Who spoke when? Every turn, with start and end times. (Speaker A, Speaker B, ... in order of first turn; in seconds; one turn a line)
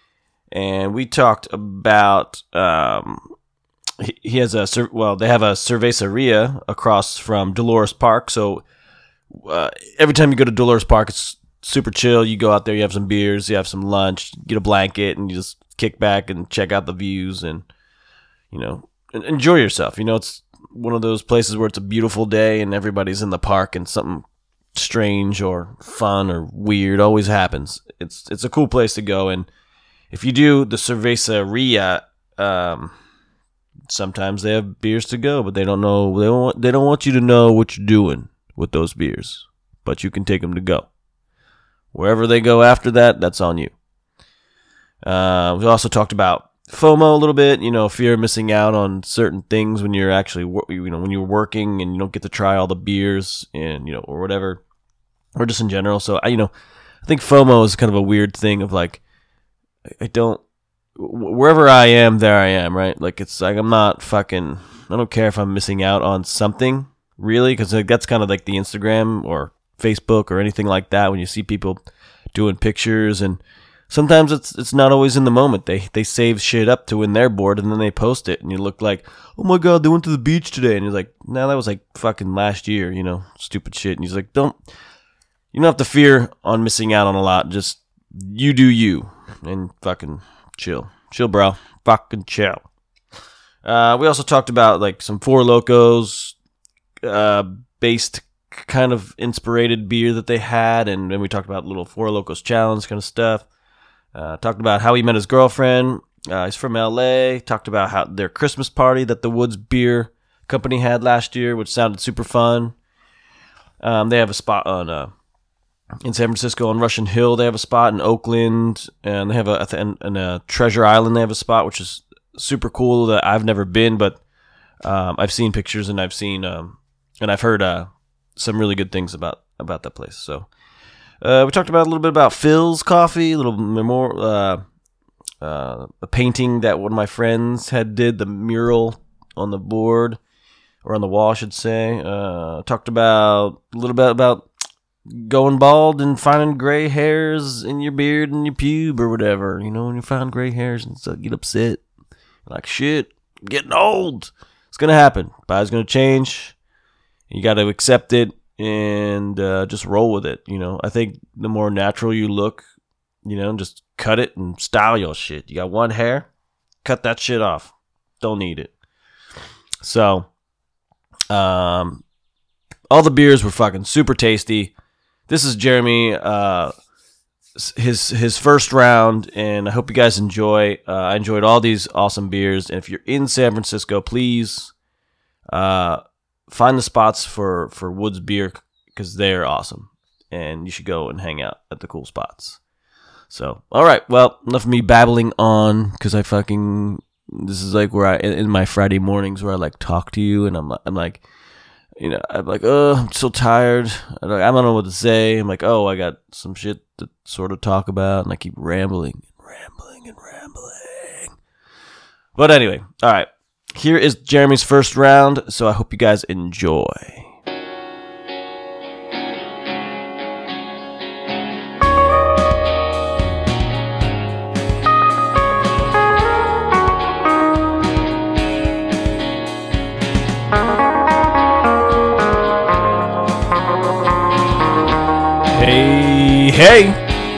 Speaker A: 0.5-3.3
Speaker A: 4.0-8.6
Speaker A: 9.3-17.7
Speaker A: 18.5-29.5
Speaker A: 30.1-32.9
Speaker A: 33.9-40.9
Speaker A: 41.9-43.7
Speaker A: 45.0-54.6
Speaker A: 55.4-56.5
Speaker A: 57.0-59.0
Speaker A: 60.0-60.4
Speaker A: 61.0-71.8
Speaker A: 72.3-84.6
Speaker A: 85.5-92.7
Speaker A: 93.6-96.3
Speaker A: 97.0-103.5
Speaker A: 104.1-112.8
Speaker A: 113.8-115.1
Speaker A: 116.0-124.2
Speaker A: 124.8-130.5
Speaker A: 131.2-134.6
Speaker A: 135.4-140.2
Speaker A: 140.8-144.5
Speaker A: 145.1-151.8
Speaker A: 152.5-156.6
Speaker A: 157.3-162.6
Speaker A: 163.2-166.3
Speaker A: 166.8-168.7
Speaker A: 169.8-170.3
Speaker A: 171.3-172.0
Speaker A: 172.9-174.7
Speaker A: 175.3-176.7
Speaker A: 177.6-184.7
Speaker A: 185.5-192.6
Speaker A: 193.3-201.2
Speaker A: 202.0-211.4
Speaker A: 212.3-217.3
Speaker A: 235.5-237.0